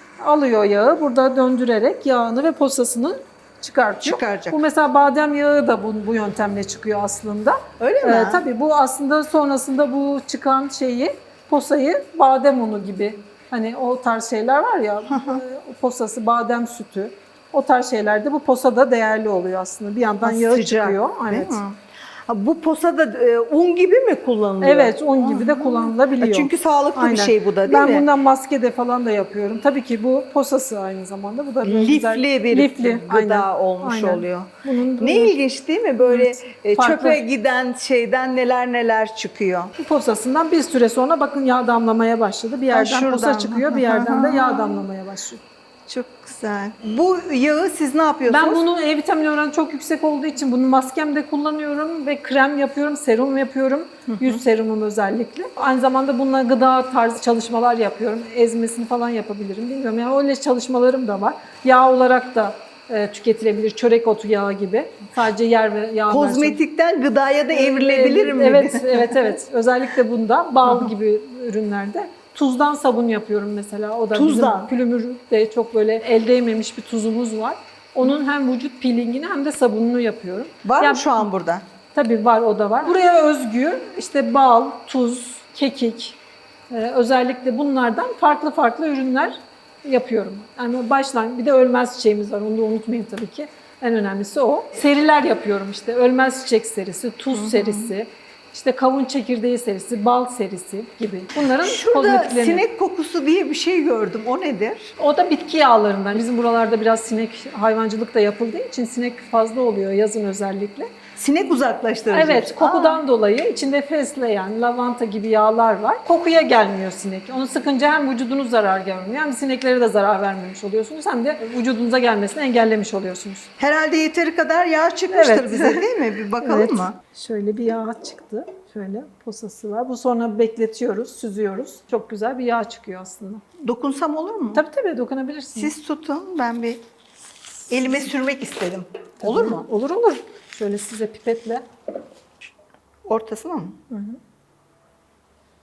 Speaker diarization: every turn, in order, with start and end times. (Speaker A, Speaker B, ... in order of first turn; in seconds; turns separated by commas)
Speaker A: 0.2-21.6, Speaker B: 4.0-4.6, Speaker B: 7.8-8.4, Speaker B: 15.1-15.4, Speaker B: 20.2-28.1, Speaker A: 24.6-35.4, Speaker B: 31.6-39.7, Speaker A: 36.0-37.2, Speaker A: 39.8-45.4, Speaker B: 42.7-44.9, Speaker B: 45.9-48.6, Speaker A: 48.3-66.6, Speaker B: 54.1-54.4, Speaker B: 66.1-69.3, Speaker A: 67.5-81.2, Speaker B: 70.6-70.9, Speaker B: 74.1-74.7, Speaker B: 80.6-81.6, Speaker A: 81.9-86.2, Speaker A: 86.7-102.6, Speaker B: 97.3-97.9, Speaker B: 101.4-104.9, Speaker A: 105.0-111.0, Speaker B: 111.2-113.0, Speaker A: 112.1-123.5, Speaker B: 123.6-127.0, Speaker A: 125.1-125.9, Speaker A: 126.4-133.4, Speaker B: 133.6-134.6, Speaker A: 134.5-135.7, Speaker B: 135.6-136.8, Speaker B: 137.7-139.7, Speaker A: 139.2-141.6, Speaker B: 143.0-143.8, Speaker A: 143.9-144.2